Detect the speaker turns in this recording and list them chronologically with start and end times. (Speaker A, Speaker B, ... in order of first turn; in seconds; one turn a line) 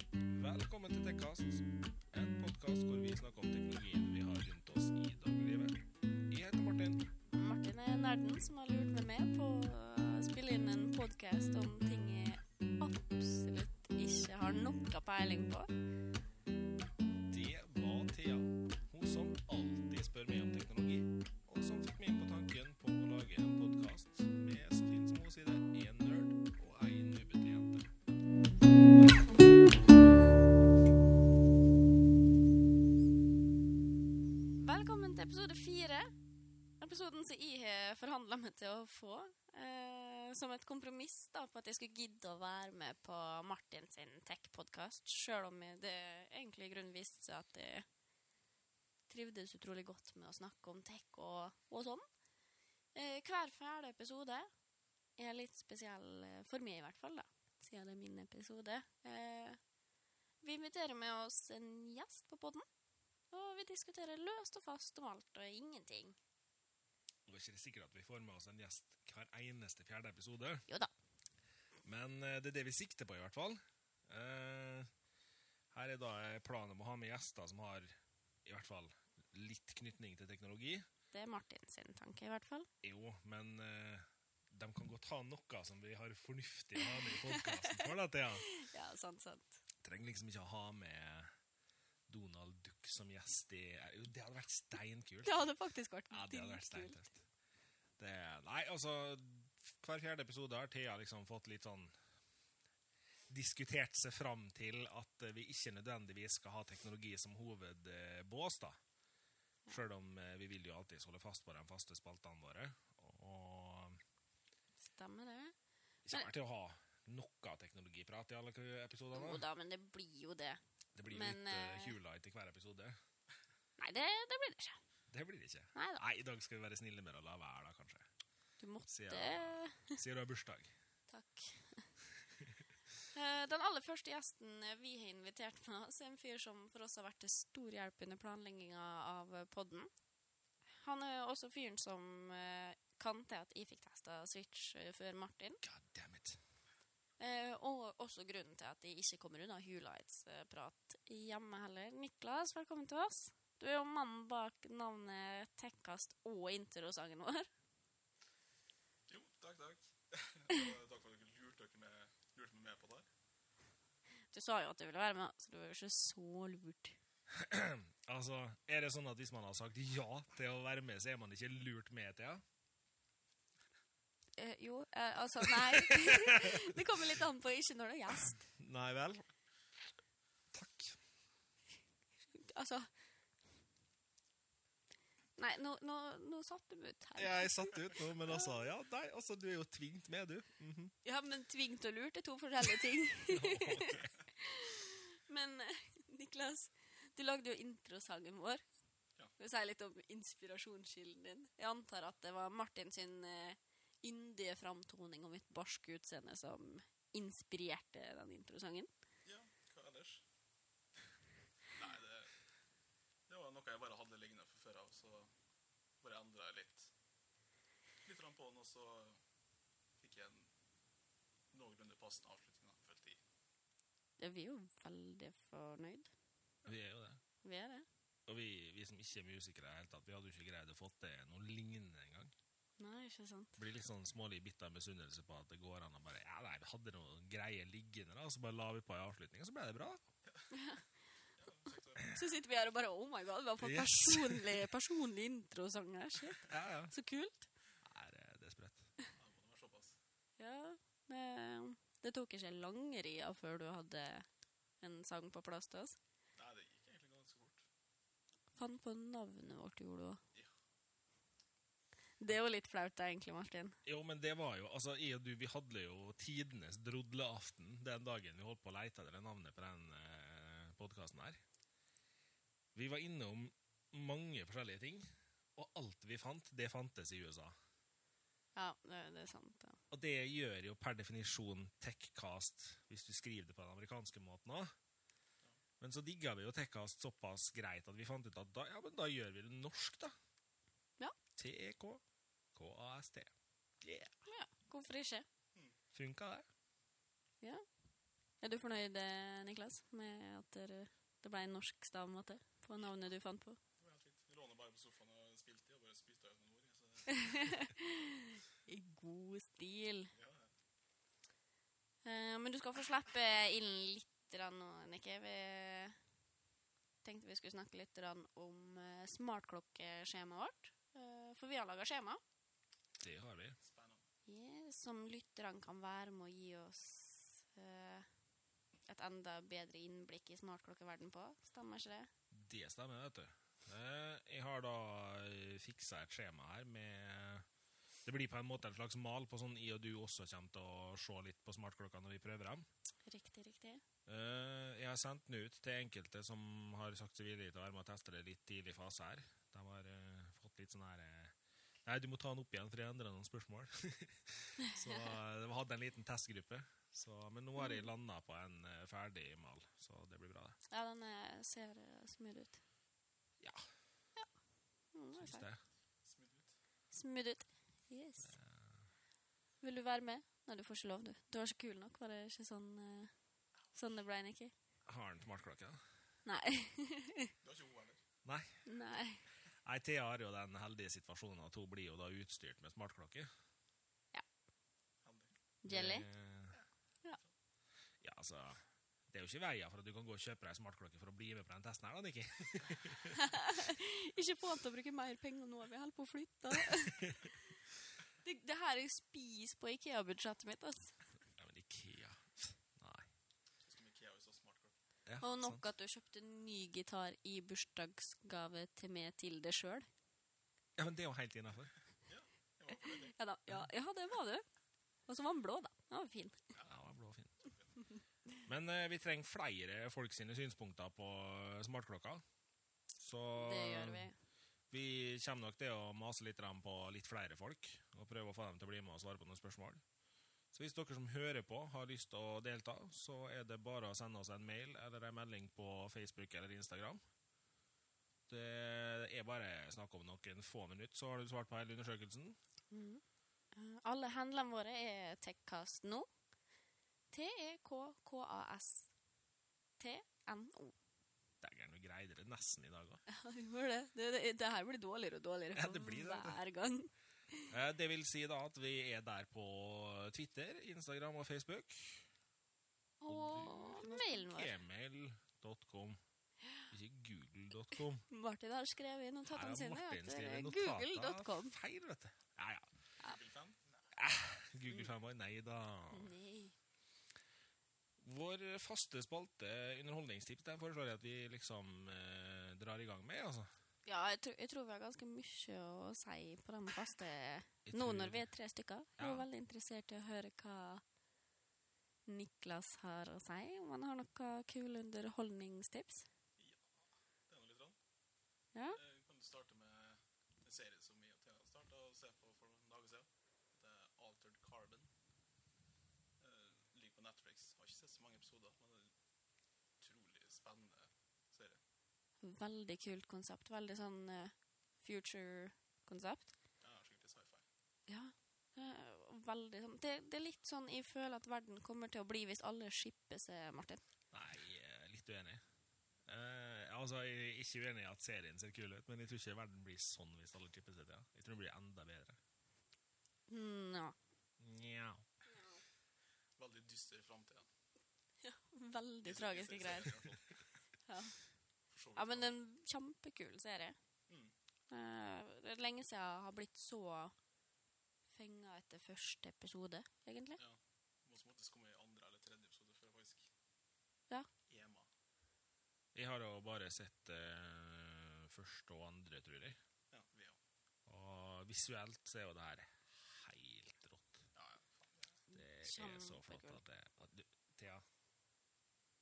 Speaker A: 0.3-7.1
Speaker B: 7.3-15.7
Speaker A: 17.3-27.9
Speaker B: 34.6-36.1
Speaker B: 36.8-47.9
Speaker B: 49.1-52.0
Speaker B: 52.9-54.5
Speaker B: 55.2-59.6
Speaker B: 60.4-62.6
Speaker B: 63.3-66.2
Speaker A: 67.2-70.7
Speaker A: 71.8-74.9
Speaker A: 75.7-77.9
Speaker A: 78.4-80.8
Speaker B: 81.1-82.7
Speaker A: 82.8-88.5
Speaker B: 86.8-89.6
Speaker A: 89.8-91.3
Speaker A: 92.1-95.4
Speaker B: 95.2-97.0
Speaker A: 96.1-97.2
Speaker A: 98.0-101.9
Speaker A: 103.3-108.8
Speaker A: 109.7-114.0
Speaker B: 114.8-115.5
Speaker A: 116.0-119.4
Speaker B: 119.1-122.0
Speaker A: 120.9-123.0
Speaker B: 123.8-124.8
Speaker A: 125.1-128.1
Speaker B: 125.7-126.0
Speaker B: 128.6-130.0
Speaker A: 128.9-130.7
Speaker B: 131.1-131.9
Speaker B: 133.1-139.9
Speaker B: 140.7-145.6
Speaker A: 145.6-146.4
Speaker B: 147.2-157.5
Speaker C: 159.1-163.1
Speaker B: 164.3-167.0
Speaker A: 167.3-172.4
Speaker B: 174.4-178.4
Speaker A: 175.4-176.8
Speaker A: 178.3-179.2
Speaker A: 180.5-181.0
Speaker B: 182.3-182.9
Speaker B: 185.4-188.5
Speaker A: 187.2-190.9
Speaker B: 191.0-198.6
Speaker A: 193.3-194.1
Speaker B: 199.4-208.9
Speaker C: 209.2-210.2
Speaker C: 211.7-212.3
Speaker C: 213.3-215.3
Speaker C: 216.0-216.9
Speaker C: 218.0-219.2
Speaker C: 220.0-220.5
Speaker C: 221.5-223.2
Speaker B: 224.2-226.1
Speaker A: 226.6-227.2
Speaker B: 227.4-227.8
Speaker A: 228.3-232.3
Speaker B: 232.8-233.6
Speaker A: 233.6-240.0
Speaker B: 240.5-240.8
Speaker C: 241.4-242.2
Speaker B: 242.0-247.5
Speaker A: 243.6-244.7
Speaker A: 246.5-246.9
Speaker A: 247.8-248.9
Speaker C: 249.2-249.9
Speaker B: 250.4-254.3
Speaker B: 254.8-256.0
Speaker C: 256.4-257.6
Speaker B: 258.6-260.2
Speaker B: 262.2-263.8
Speaker A: 263.8-271.4
Speaker A: 272.7-277.6
Speaker B: 278.5-279.8
Speaker A: 279.9-284.7
Speaker A: 285.8-290.1
Speaker A: 291.4-292.0
Speaker A: 292.5-294.1
Speaker B: 294.2-295.2
Speaker A: 295.9-296.5
Speaker B: 298.4-303.6
Speaker C: 303.8-307.7
Speaker B: 307.1-310.1
Speaker C: 310.1-310.5
Speaker B: 312.0-316.0
Speaker B: 317.0-322.2
Speaker A: 323.0-323.6
Speaker C: 323.6-324.0
Speaker B: 324.2-328.1
Speaker B: 328.9-332.1
Speaker A: 332.3-337.4
Speaker A: 338.0-342.7
Speaker B: 343.1-343.8
Speaker A: 344.1-351.3
Speaker A: 351.8-360.6
Speaker B: 357.6-357.8
Speaker B: 360.7-362.6
Speaker A: 363.4-363.7
Speaker B: 364.9-365.5
Speaker A: 365.1-365.6
Speaker C: 366.0-366.5
Speaker B: 366.9-368.3
Speaker A: 368.2-368.9
Speaker B: 369.6-373.1
Speaker B: 373.7-374.5
Speaker A: 374.9-375.8
Speaker B: 376.2-377.3
Speaker C: 377.4-378.0
Speaker A: 378.2-378.6
Speaker B: 378.6-379.2
Speaker A: 379.6-383.3
Speaker C: 385.0-385.3
Speaker B: 385.6-386.1
Speaker A: 385.7-386.6
Speaker A: 388.0-393.2
Speaker B: 393.1-397.4
Speaker B: 398.2-401.0
Speaker A: 401.4-403.1
Speaker C: 403.6-404.7
Speaker A: 405.1-405.6
Speaker B: 405.2-409.9
Speaker A: 410.8-411.7
Speaker C: 412.1-413.1
Speaker B: 412.7-414.4
Speaker B: 415.1-416.4
Speaker C: 416.5-416.8
Speaker A: 416.6-417.3
Speaker C: 417.4-417.7
Speaker A: 418.4-422.2
Speaker A: 422.9-424.1
Speaker B: 423.3-424.2
Speaker A: 424.7-429.8
Speaker A: 430.5-437.0
Speaker A: 438.3-442.4
Speaker B: 442.7-443.0
Speaker B: 443.5-446.1
Speaker B: 447.1-448.9
Speaker B: 449.8-450.8
Speaker A: 451.4-453.0
Speaker B: 453.1-457.5
Speaker A: 455.5-456.4
Speaker A: 457.5-462.1
Speaker B: 463.0-464.5
Speaker A: 463.1-466.0
Speaker A: 466.7-468.0
Speaker B: 468.1-471.6
Speaker A: 469.3-472.7
Speaker C: 473.0-473.8
Speaker A: 473.9-476.1
Speaker B: 475.9-476.5
Speaker A: 478.0-483.5
Speaker B: 483.8-490.8
Speaker A: 487.6-488.3
Speaker A: 489.0-489.3
Speaker B: 492.1-496.1
Speaker C: 496.4-496.7
Speaker C: 497.3-497.8
Speaker C: 498.7-504.9
Speaker C: 506.2-508.9
Speaker C: 509.8-511.6
Speaker B: 512.2-516.3
Speaker C: 516.6-517.5
Speaker B: 517.9-523.8
Speaker A: 524.1-525.4
Speaker A: 526.0-532.2
Speaker B: 533.3-534.0
Speaker A: 534.4-535.0
Speaker B: 535.3-535.6
Speaker C: 536.4-537.5
Speaker B: 538.2-540.0
Speaker C: 539.0-540.4
Speaker B: 540.9-541.2
Speaker C: 541.7-542.3
Speaker B: 542.0-543.8
Speaker C: 544.1-544.3
Speaker B: 544.7-547.1
Speaker B: 548.1-550.4
Speaker C: 550.4-553.3
Speaker C: 554.5-554.9
Speaker A: 555.9-559.6
Speaker C: 559.9-560.4
Speaker A: 560.9-564.2
Speaker C: 564.3-565.2
Speaker B: 565.3-566.6
Speaker A: 565.3-567.9